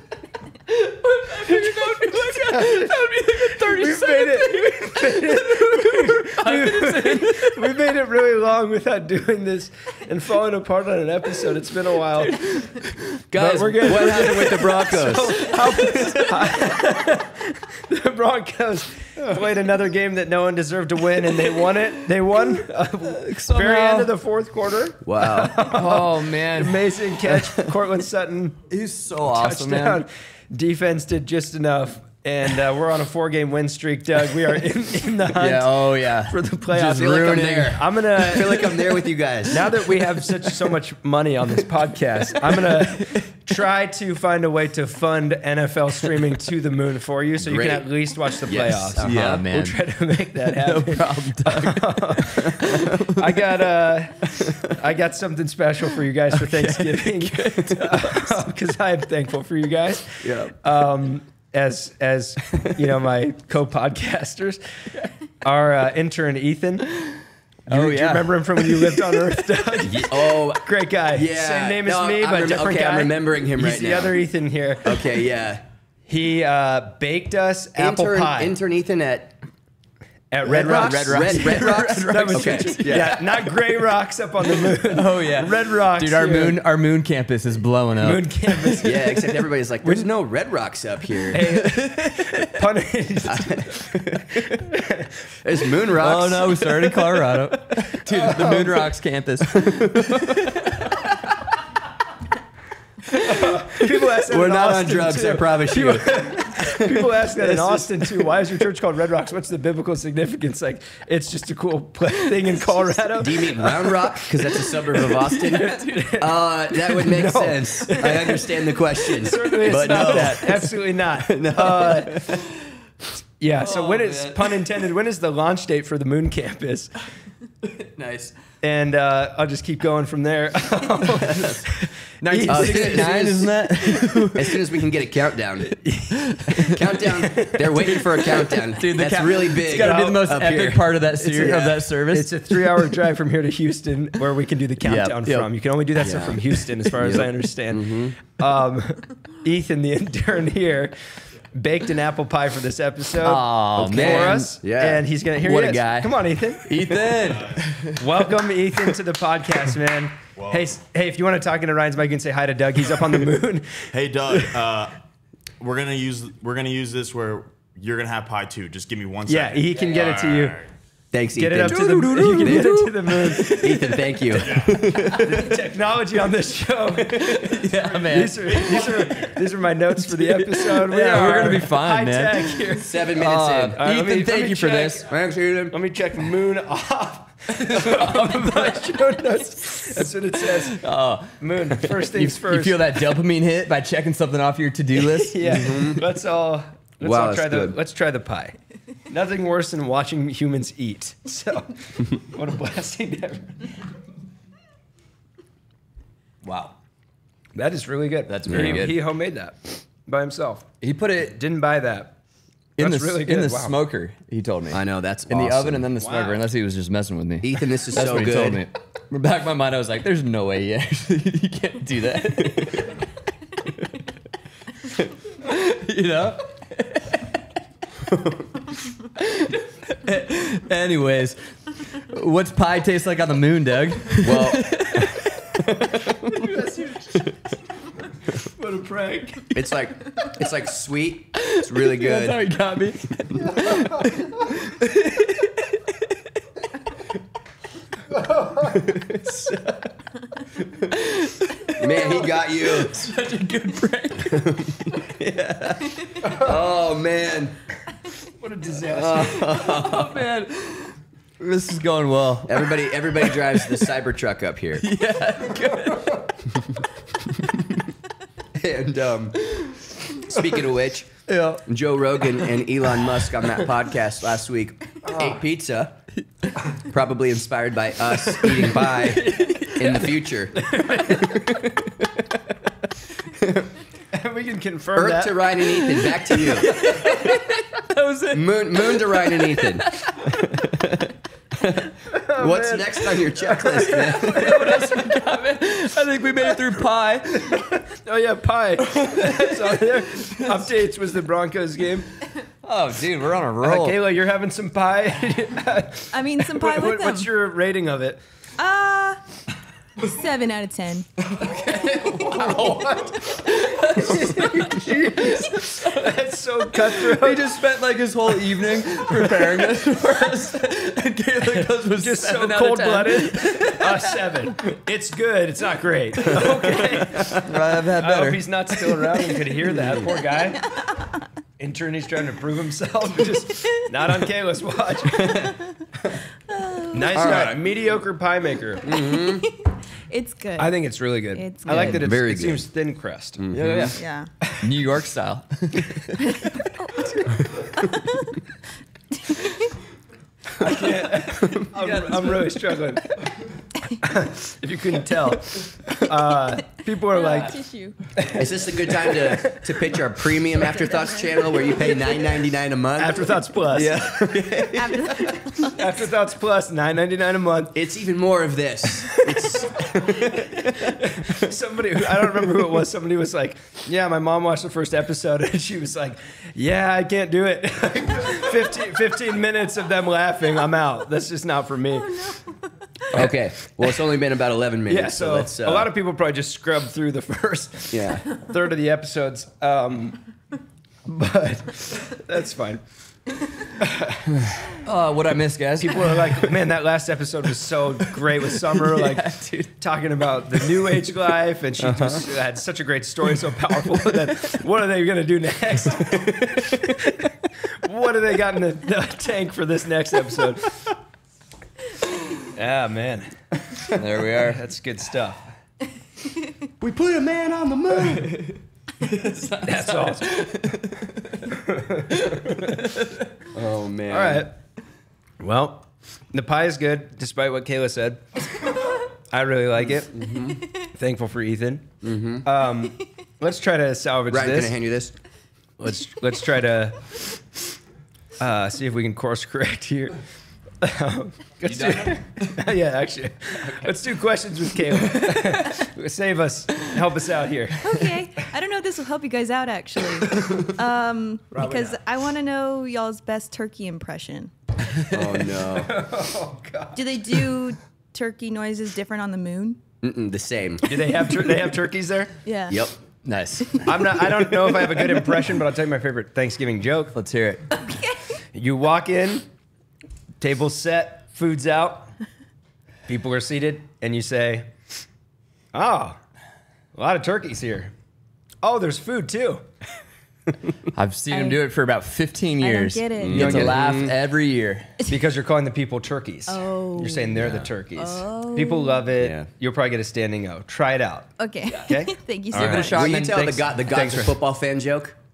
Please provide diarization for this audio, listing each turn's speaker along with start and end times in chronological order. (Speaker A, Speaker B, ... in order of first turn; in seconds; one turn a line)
Speaker A: 0.7-7.8
Speaker B: 2.5-12.6
Speaker A: 12.2-13.2
Speaker C: 13.3-15.5
Speaker B: 13.3-28.6
Speaker A: 14.0-14.5
Speaker A: 15.5-16.6
Speaker A: 23.1-24.1
Speaker C: 25.1-25.7
Speaker A: 25.6-27.4
Speaker A: 28.7-30.1
Speaker B: 29.2-64.6
Speaker A: 35.3-37.8
Speaker C: 36.9-39.9
Speaker C: 47.4-47.9
Speaker C: 48.4-49.4
Speaker A: 49.0-49.8
Speaker A: 50.4-53.5
Speaker A: 56.3-58.3
Speaker C: 60.2-60.5
Speaker B: 65.4-66.9
Speaker B: 67.7-75.2
Speaker A: 67.7-69.3
Speaker C: 69.8-74.2
Speaker C: 74.8-75.6
Speaker B: 76.1-78.6
Speaker C: 77.8-79.4
Speaker B: 80.3-86.7
Speaker C: 80.4-83.2
Speaker A: 80.5-83.5
Speaker A: 84.5-89.1
Speaker B: 88.0-90.1
Speaker C: 88.8-91.7
Speaker B: 91.3-95.1
Speaker A: 91.6-92.5
Speaker C: 93.3-94.6
Speaker C: 95.4-97.4
Speaker A: 95.9-101.0
Speaker B: 98.2-98.6
Speaker C: 99.5-100.6
Speaker B: 103.1-122.4
Speaker C: 104.2-108.3
Speaker C: 113.2-122.5
Speaker A: 115.6-115.8
Speaker A: 119.7-120.4
Speaker B: 123.4-126.9
Speaker C: 123.6-124.6
Speaker C: 127.8-128.3
Speaker B: 128.6-133.4
Speaker C: 131.3-131.6
Speaker A: 132.2-134.8
Speaker C: 132.5-135.9
Speaker B: 135.8-136.6
Speaker A: 136.1-142.9
Speaker C: 136.6-141.7
Speaker B: 139.6-140.4
Speaker B: 141.2-151.0
Speaker A: 144.8-145.5
Speaker C: 146.0-146.4
Speaker C: 147.0-148.2
Speaker B: 151.5-157.3
Speaker A: 153.2-154.5
Speaker C: 153.8-155.0
Speaker A: 155.4-158.4
Speaker D: 157.2-157.7
Speaker B: 157.9-164.6
Speaker D: 160.4-160.7
Speaker D: 163.9-165.0
Speaker D: 165.6-170.7
Speaker B: 169.3-170.6
Speaker C: 171.1-175.5
Speaker B: 171.3-173.9
Speaker A: 171.7-175.4
Speaker D: 174.3-174.9
Speaker B: 175.1-185.1
Speaker C: 177.1-177.6
Speaker A: 177.1-179.4
Speaker A: 180.0-185.1
Speaker C: 182.8-183.8
Speaker C: 185.1-185.8
Speaker B: 185.7-190.8
Speaker A: 187.7-188.8
Speaker A: 190.4-191.4
Speaker B: 191.4-193.0
Speaker A: 191.9-195.8
Speaker B: 195.1-198.6
Speaker C: 195.5-196.0
Speaker C: 197.0-197.8
Speaker B: 199.1-203.7
Speaker A: 206.4-206.7
Speaker B: 207.6-210.7
Speaker A: 208.3-209.0
Speaker C: 208.5-208.9
Speaker A: 210.8-211.4
Speaker B: 211.2-212.2
Speaker A: 212.8-223.0
Speaker B: 212.8-213.8
Speaker C: 214.7-215.9
Speaker B: 216.0-216.4
Speaker C: 217.4-218.6
Speaker A: 225.3-227.4
Speaker A: 229.2-231.4
Speaker A: 231.9-235.8
Speaker C: 234.2-234.9
Speaker C: 235.8-236.5
Speaker B: 236.4-237.2
Speaker B: 238.6-239.5
Speaker C: 239.5-242.4
Speaker A: 241.4-246.2
Speaker B: 248.2-249.6
Speaker A: 250.9-255.0
Speaker C: 251.7-253.0
Speaker C: 254.3-257.6
Speaker B: 258.4-259.7
Speaker C: 258.9-260.2
Speaker A: 259.1-263.9
Speaker C: 262.5-264.9
Speaker A: 264.8-266.3
Speaker C: 268.6-269.6
Speaker C: 270.2-276.0
Speaker A: 271.3-271.6
Speaker C: 276.9-281.9
Speaker A: 278.4-280.3
Speaker B: 280.6-281.5
Speaker C: 283.3-283.7
Speaker B: 284.1-285.6
Speaker C: 284.9-287.0
Speaker A: 285.7-290.6
Speaker C: 288.3-294.7
Speaker B: 292.1-295.1
Speaker A: 293.7-297.7
Speaker B: 297.4-302.1
Speaker A: 298.8-300.7
Speaker A: 302.6-304.0
Speaker B: 303.6-308.2
Speaker E: 306.1-307.3
Speaker E: 308.6-309.2
Speaker E: 310.0-311.1
Speaker A: 311.3-316.2
Speaker B: 312.3-317.5
Speaker A: 316.8-324.2
Speaker B: 321.8-330.7
Speaker C: 327.1-327.4
Speaker A: 327.3-328.9
Speaker B: 331.6-335.6
Speaker C: 335.2-335.5
Speaker E: 336.5-337.3
Speaker B: 336.9-339.1
Speaker C: 337.1-337.6
Speaker C: 338.8-339.5
Speaker E: 338.9-340.8
Speaker B: 340.6-343.6
Speaker E: 341.3-342.0
Speaker C: 341.7-342.7
Speaker C: 343.4-343.9
Speaker A: 343.5-344.0
Speaker E: 343.9-344.3
Speaker A: 344.6-346.4
Speaker E: 347.8-348.3
Speaker E: 349.2-349.7
Speaker B: 350.6-353.2
Speaker C: 350.6-351.7
Speaker A: 351.8-352.3
Speaker B: 354.0-357.6
Speaker E: 357.1-358.0
Speaker B: 358.2-359.7
Speaker C: 358.3-365.4
Speaker E: 360.7-362.2
Speaker B: 363.0-364.1
Speaker E: 364.7-365.8
Speaker B: 365.6-367.7
Speaker C: 367.7-371.5
Speaker B: 369.0-382.3
Speaker E: 382.1-382.5
Speaker B: 383.1-383.4
Speaker C: 383.1-385.9
Speaker B: 384.9-390.2
Speaker C: 387.9-388.3
Speaker B: 391.1-392.8
Speaker B: 393.7-394.4
Speaker A: 394.7-396.5
Speaker B: 395.8-410.9
Speaker A: 398.5-399.7
Speaker C: 401.8-402.2
Speaker C: 406.0-406.7
Speaker B: 412.3-413.3
Speaker A: 413.9-414.6
Speaker B: 413.9-415.4
Speaker C: 416.8-418.6
Speaker A: 419.0-421.4
Speaker B: 419.6-420.5
Speaker B: 421.5-422.8
Speaker A: 422.1-423.2
Speaker C: 423.5-424.5
Speaker B: 424.1-424.5
Speaker B: 425.4-428.7
Speaker B: 429.3-431.9
Speaker C: 430.1-430.6
Speaker C: 432.0-432.5
Speaker B: 432.4-434.8
Speaker C: 434.3-435.1
Speaker B: 435.8-437.2
Speaker B: 438.4-440.2
Speaker B: 440.8-448.1
Speaker C: 441.7-442.1
Speaker E: 447.8-454.5
Speaker B: 451.5-452.0
Speaker C: 455.1-456.0
Speaker B: 455.7-457.2
Speaker E: 456.9-459.8
Speaker C: 460.0-460.9
Speaker B: 460.9-462.3
Speaker E: 462.4-462.8
Speaker C: 462.7-463.0
Speaker A: 463.2-464.2
Speaker B: 463.9-467.1
Speaker A: 467.1-467.8
Speaker E: 467.8-468.2
Speaker B: 468.5-469.5
Speaker B: 470.4-472.1
Speaker B: 473.1-474.7
Speaker B: 475.7-476.2
Speaker B: 476.9-477.9
Speaker B: 478.6-479.6
Speaker A: 480.9-484.9
Speaker E: 481.3-481.6
Speaker E: 482.6-483.6
Speaker C: 483.2-484.1
Speaker B: 483.5-483.8
Speaker B: 485.1-494.4
Speaker E: 486.5-487.4
Speaker C: 487.4-487.7
Speaker E: 487.9-489.1
Speaker C: 489.2-489.5
Speaker E: 491.4-493.0
Speaker A: 492.5-493.7
Speaker C: 492.6-495.2